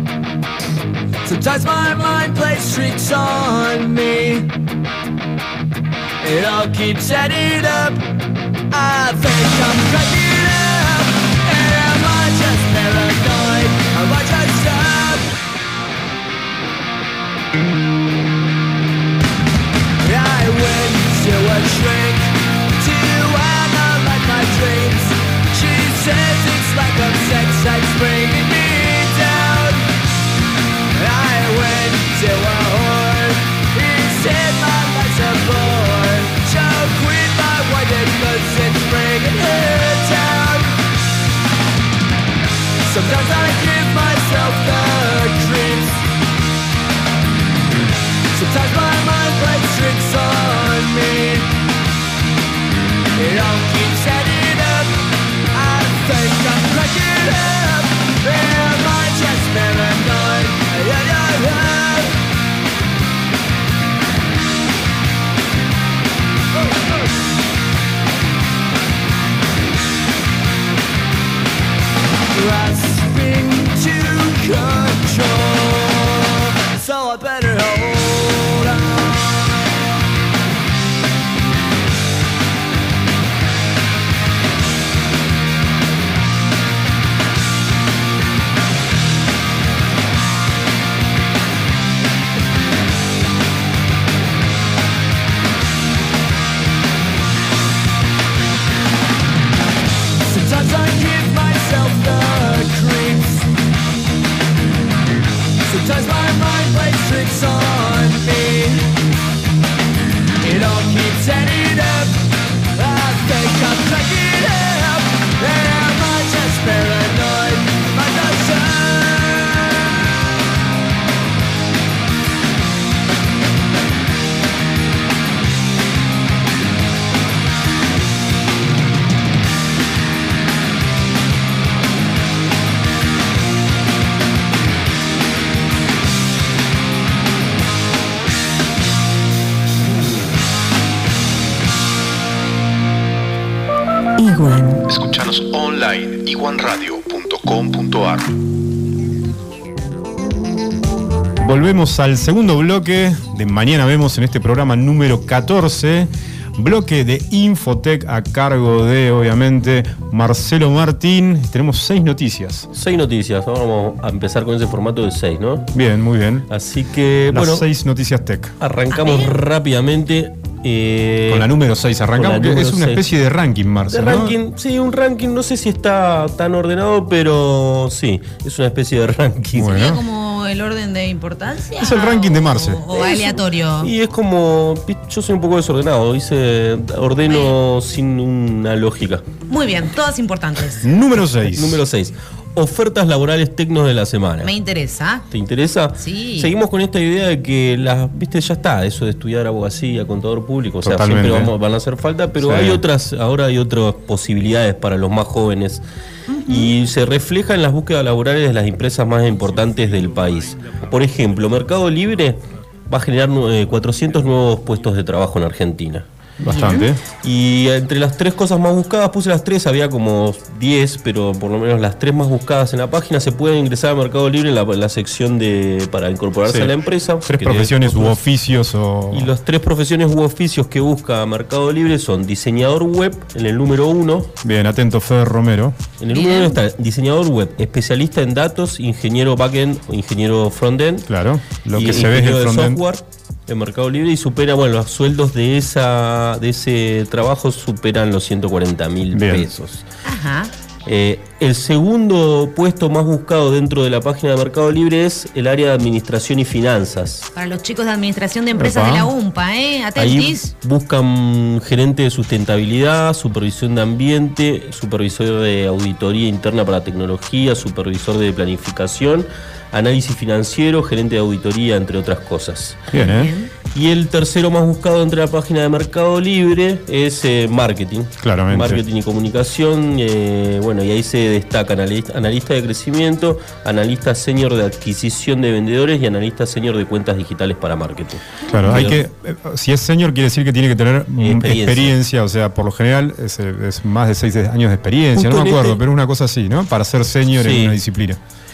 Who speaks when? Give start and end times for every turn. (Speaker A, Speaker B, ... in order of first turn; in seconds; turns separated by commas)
Speaker A: 1.2-4.5, Speaker A: 6.2-8.0, Speaker A: 8.7-15.3, Speaker A: 20.0-29.9, Speaker A: 30.9-40.8, Speaker A: 42.9-46.0, Speaker A: 48.3-51.5, Speaker A: 53.2-62.2, Speaker A: 66.6-67.1, Speaker A: 72.3-79.6, Speaker A: 100.2-103.5, Speaker A: 105.7-108.9, Speaker A: 110.4-119.9, Speaker B: 144.2-144.8, Speaker C: 144.9-148.3, Speaker D: 151.4-162.7, Speaker E: 162.7-165.7, Speaker D: 165.7-166.5, Speaker E: 166.5-167.7, Speaker D: 167.3-168.6, Speaker E: 168.6-171.5, Speaker B: 168.9-169.4, Speaker D: 171.3-174.4, Speaker E: 172.2-173.1, Speaker E: 173.9-179.9, Speaker D: 179.6-180.0, Speaker B: 179.6-183.9, Speaker D: 181.8-182.8, Speaker E: 182.9-189.2, Speaker B: 187.3-187.5, Speaker B: 189.5-190.9, Speaker D: 190.8-191.8, Speaker E: 191.5-194.5, Speaker B: 194.4-195.2, Speaker E: 195.3-205.8, Speaker B: 196.0-196.5, Speaker D: 200.8-201.5, Speaker D: 202.4-202.8, Speaker B: 206.3-206.7, Speaker E: 206.5-216.1, Speaker D: 216.4-217.0, Speaker B: 216.4-216.9, Speaker E: 217.0-228.2, Speaker D: 226.5-226.7, Speaker D: 227.2-229.3, Speaker E: 229.1-234.3, Speaker D: 234.4-235.8, Speaker E: 236.0-241.1, Speaker B: 236.1-236.6, Speaker D: 241.1-242.8, Speaker E: 241.7-249.8, Speaker D: 249.1-249.5, Speaker B: 250.0-250.5, Speaker E: 250.9-257.3, Speaker B: 257.4-260.5, Speaker D: 258.6-259.1, Speaker E: 260.0-272.9, Speaker D: 272.9-273.3, Speaker B: 272.9-273.5, Speaker E: 273.7-289.0, Speaker D: 278.2-278.8, Speaker D: 288.5-298.2, Speaker E: 291.2-291.9, Speaker E: 295.1-295.8, Speaker E: 297.4-297.8